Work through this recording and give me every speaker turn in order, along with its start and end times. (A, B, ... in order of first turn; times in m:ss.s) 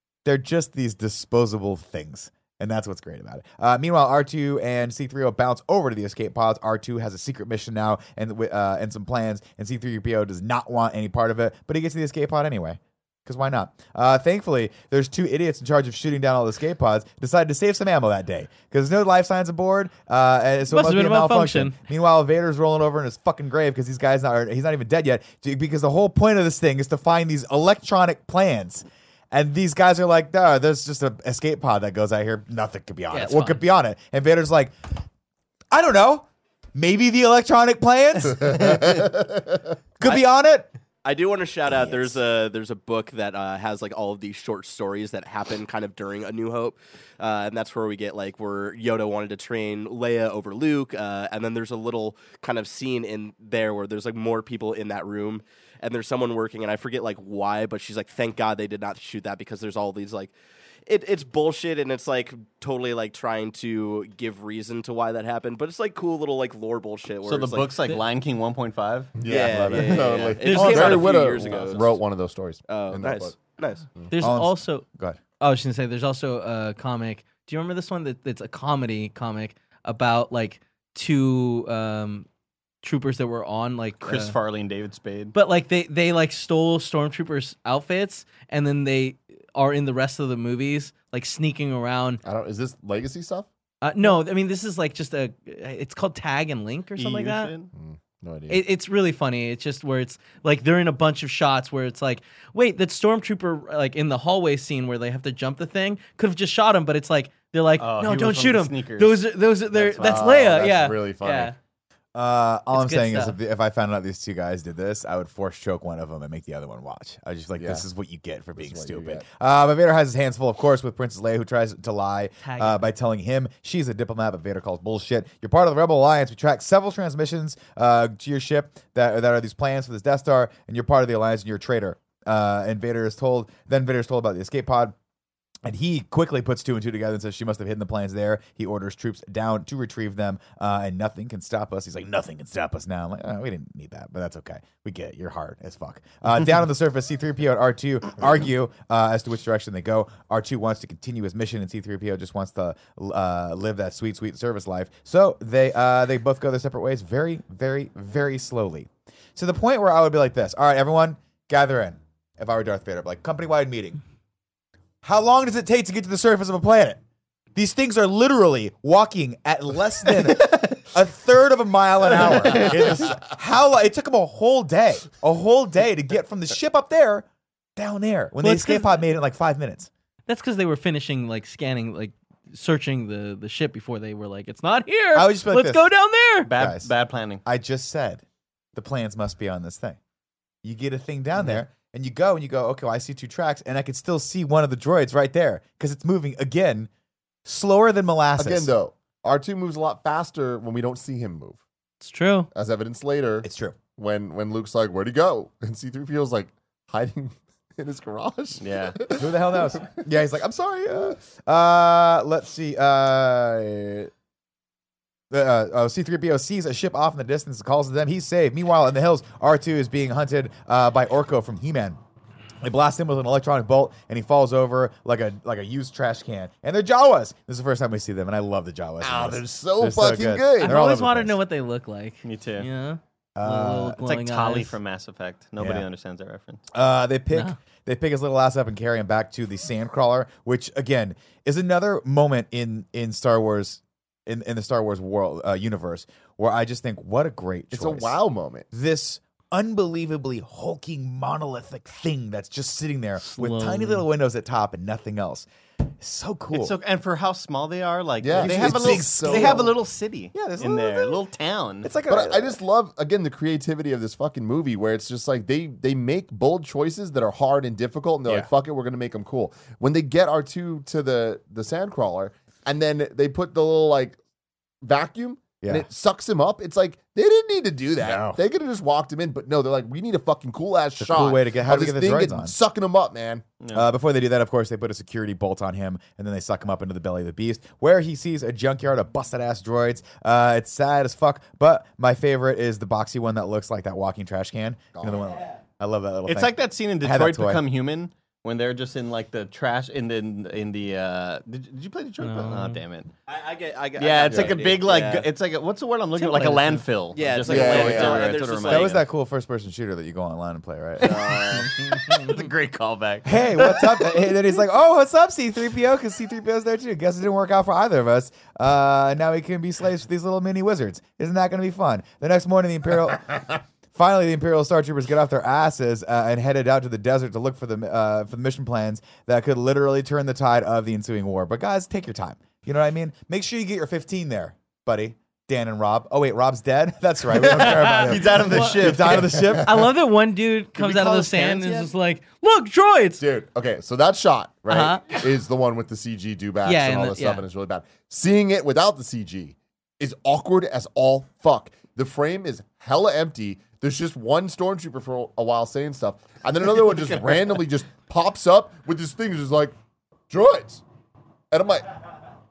0:00.2-0:34.8 A
0:20.7-0:21.8 B
0:33.1-0:33.6 B
0:35.7-0:39.2 A
0:38.4-0:39.2 C
0:40.0-0:40.7 A
0:41.0-1:00.3 D
0:41.7-0:42.1 A
1:00.9-1:07.7 D
1:07.2-1:09.2 E
1:09.2-1:13.4 C
1:09.2-1:12.0 D
1:09.4-1:10.2 A
1:10.4-1:11.1 B
1:12.7-1:13.9 D
1:14.1-1:14.8 B
1:14.2-1:15.2 A
1:15.4-1:22.3 B
1:22.8-1:24.4 B
1:24.0-1:25.4 E
1:25.3-1:32.2 B
1:32.2-1:33.5 C
1:33.8-1:37.5 B
1:37.0-1:37.7 E
1:37.8-1:38.6 C
1:38.5-1:51.6 B
1:47.8-1:50.4 E
1:50.0-1:51.6 C
1:52.2-2:15.0 A
1:52.7-1:53.4 B
1:57.6-1:57.8 C
1:58.6-1:59.2 C
2:02.4-2:02.8 B
2:15.6-2:44.0 A
2:45.0-2:47.0 A
2:47.6-2:59.9 A
2:50.4-2:50.8 E
2:52.5-2:52.8 E
2:58.4-2:59.0 B
3:00.3-3:06.5 B
3:05.1-3:05.9 A
3:06.4-3:07.4 E
3:06.5-3:06.9 A
3:07.4-3:08.2 A
3:08.7-3:10.0 A
3:10.6-3:16.9 A
3:17.4-3:18.7 A
3:18.4-3:21.6 C
3:22.0-3:22.5 B
3:22.5-3:30.0 C
3:23.4-3:23.8 A
3:28.6-3:29.0 E
3:29.2-3:34.1 A
3:35.3-3:42.0 A
3:42.6-3:51.4 A
3:49.0-3:50.8 C
3:50.6-3:54.8 B
3:52.2-3:52.7 E
3:53.4-3:54.0 A
3:54.0-3:56.6 E
3:55.6-3:55.9 A
3:56.7-4:08.2 A
3:57.3-3:57.6 B
4:07.7-4:08.7 C
4:08.7-4:15.5 A
4:13.2-4:14.1 B
4:16.0-4:16.8 A
4:16.5-4:21.9 E
4:18.2-4:19.8 C
4:18.3-4:19.7 A
4:20.3-4:21.2 A
4:21.8-4:22.6 A
4:22.1-4:34.2 C
4:34.8-4:43.4 C
4:35.6-4:35.9 A
4:38.0-4:38.4 A
4:41.0-4:42.6 A
4:43.6-4:43.9 E
4:43.7-4:57.6 A
4:55.0-4:55.2 C
4:56.3-5:03.1 E
5:02.2-5:02.8 B
5:03.3-5:05.3 D
5:04.0-5:09.0 E
5:06.2-5:06.8 B
5:07.1-5:08.9 D
5:07.5-5:08.4 C
5:08.7-5:11.6 A
5:11.0-5:13.8 E
5:13.2-5:39.9 A
5:37.4-5:39.6 E
5:37.5-5:39.0 B
5:39.6-5:43.2 B
5:40.8-5:41.9 E
5:43.2-5:59.7 C
5:44.7-5:45.3 B
5:46.6-5:47.4 B
6:00.3-6:00.8 C
6:01.5-6:02.0 C